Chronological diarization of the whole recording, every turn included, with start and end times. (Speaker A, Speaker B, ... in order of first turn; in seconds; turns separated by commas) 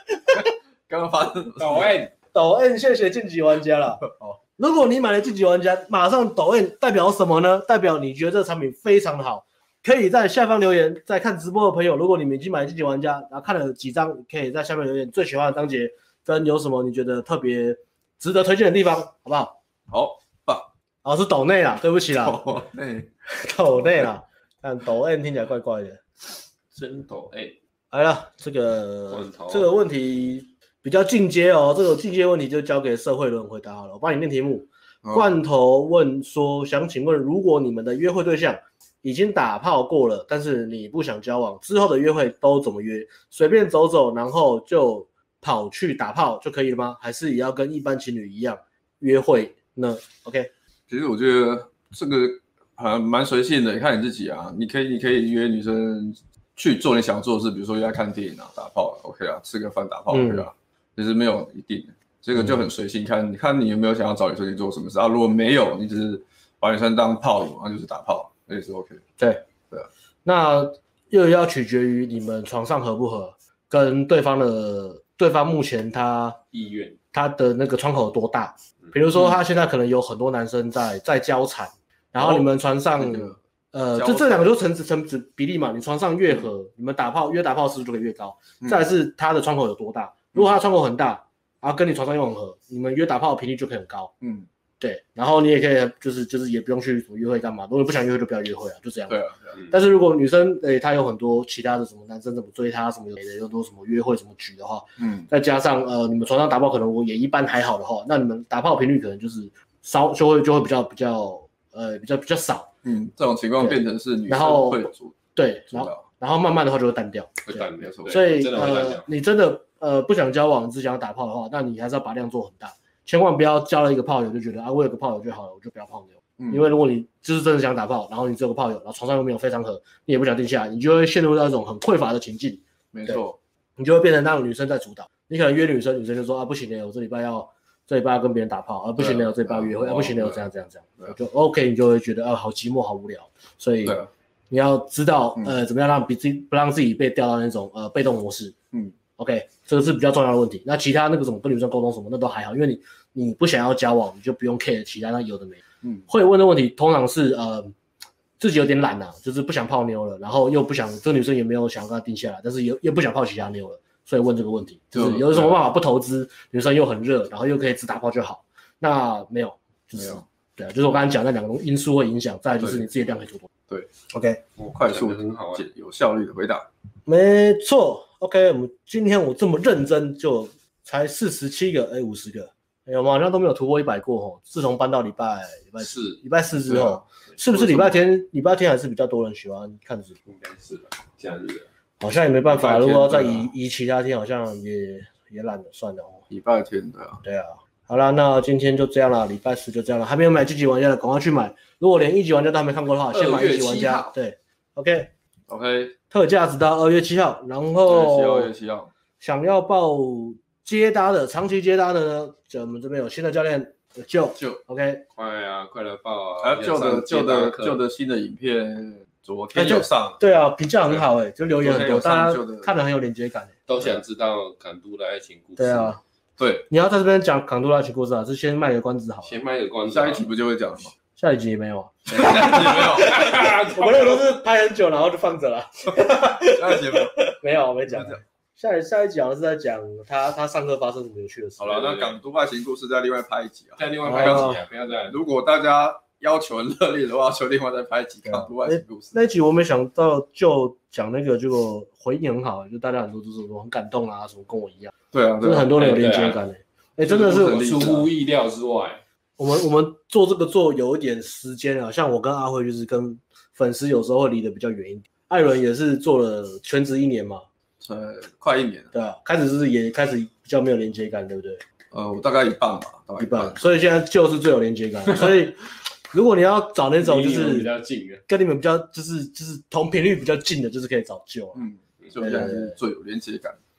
Speaker A: 0.3-2.0, Speaker B: 1.6-2.1, Speaker C: 2.3-4.0, Speaker A: 4.0-4.4, Speaker C: 4.6-19.5, Speaker A: 19.9-20.7, Speaker C: 21.0-22.5, Speaker A: 22.2-23.1, Speaker C: 23.3-26.0, Speaker B: 26.8-27.6, Speaker C: 27.9-50.5, Speaker B: 29.1-29.7, Speaker A: 50.9-69.0, Speaker C: 60.1-60.4, Speaker C: 70.2-76.4, Speaker B: 76.5-77.0, Speaker C: 77.1-94.1, Speaker A: 82.2-82.5, Speaker A: 83.0-83.4, Speaker A: 83.9-84.6, Speaker A: 94.2-94.5, Speaker C: 94.8-99.2, Speaker A: 99.1-99.6, Speaker C: 99.7-112.7, Speaker A: 105.0-105.3, Speaker A: 112.8-115.2, Speaker C: 113.6-133.2, Speaker A: 115.7-116.0, Speaker B: 117.5-119.1, Speaker A: 117.8-118.2, Speaker A: 126.4-126.7, Speaker A: 132.9-133.4, Speaker C: 133.8-144.0, Speaker A: 139.0-140.4, Speaker C: 144.5-148.6, Speaker C: 149.2-157.7, Speaker C: 158.4-173.5, Speaker A: 164.9-165.6, Speaker C: 174.1-174.4, Speaker B: 174.6-175.7, Speaker A: 174.6-176.7, Speaker C: 177.1-190.2, Speaker B: 185.8-186.2, Speaker A: 186.7-187.0, Speaker A: 187.5-187.9, Speaker B: 190.3-191.7, Speaker C: 192.0-196.3, Speaker B: 192.6-193.3, Speaker A: 192.7-193.3, Speaker A: 196.3-197.2, Speaker C: 197.2-205.1, Speaker B: 203.1-204.1, Speaker A: 205.5-205.9, Speaker C: 206.1-208.5, Speaker A: 207.8-208.9, Speaker C: 209.2-215.0, Speaker B: 215.2-217.8, Speaker A: 216.4-220.2, Speaker C: 219.5-223.5, Speaker A: 221.6-222.7, Speaker B: 223.7-225.9, Speaker C: 225.6-226.0, Speaker A: 226.4-226.7, Speaker C: 226.7-229.3, Speaker B: 229.2-230.3, Speaker A: 229.9-230.9, Speaker C: 231.2-241.8, Speaker A: 232.1-233.2, Speaker B: 232.4-234.4, Speaker A: 236.0-237.2, Speaker A: 237.9-238.2, Speaker A: 241.6-249.2, Speaker B: 241.7-242.2, Speaker B: 243.8-245.2, Speaker C: 244.0-244.6, Speaker C: 248.3-257.8, Speaker A: 255.1-255.8, Speaker B: 255.8-256.4, Speaker A: 257.1-258.1, Speaker B: 257.1-259.0, Speaker C: 259.4-267.4, Speaker A: 267.8-268.9, Speaker C: 268.9-271.6, Speaker A: 271.9-273.6, Speaker C: 273.2-275.6, Speaker C: 276.1-277.7, Speaker B: 277.0-278.2, Speaker C: 278.3-281.6, Speaker A: 281.6-283.6, Speaker C: 282.2-282.8